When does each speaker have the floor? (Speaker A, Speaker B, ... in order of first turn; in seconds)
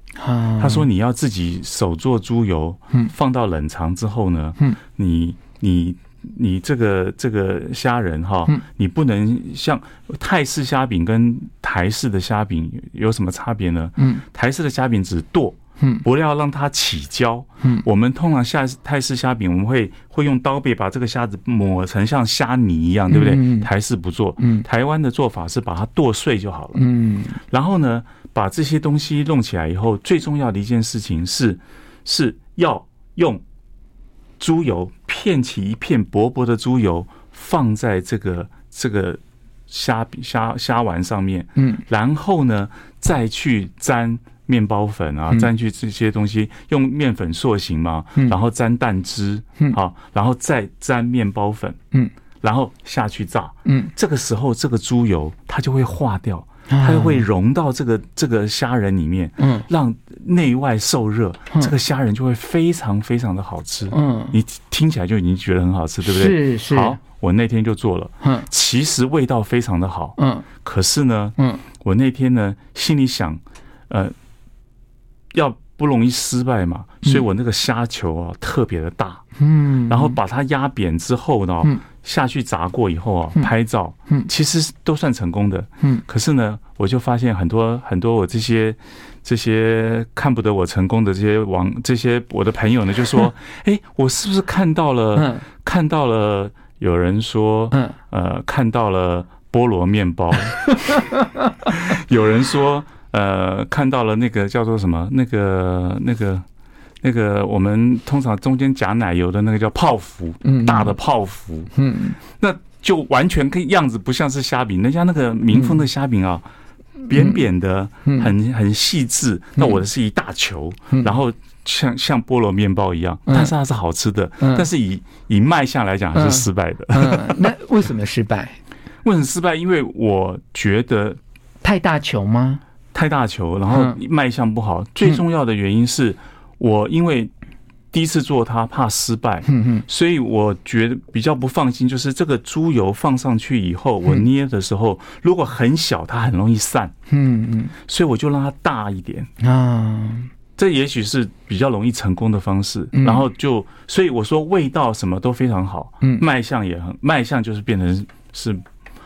Speaker A: 0.2-0.9, 14.0-14.2, 23.1-23.7, 24.4-24.6, 26.8-27.4, 41.6-41.8, 53.6-53.9, 56.7-57.3, 59.4-59.7, 63.9-64.4, 66.0-67.0, 68.2-68.5, 70.2-70.5, 71.4-71.6, 79.4-80.2, 95.2-95.4, 110.4-110.9, 111.7-112.2, 117.1-117.4, 118.0-118.3, 123.3-123.5, 124.4-124.7, 126.1-128.6, 131.6-132.6, 133.7-134.0, 139.5-139.8, 147.1-147.7, 149.4-150.3, 152.9-153.2
Speaker B: 0.6-26.8, 27.5-33.4, 34.4-51.8, 52.4-74.1, 75.3-79.2, 79.9-101.1, 101.6-106.4, 107.0-111.7, 112.3-116.5, 117.0-127.5, 129.0-131.2, 132.9-137.3, 137.9-146.9, 147.9-149.3, 150.6-158.6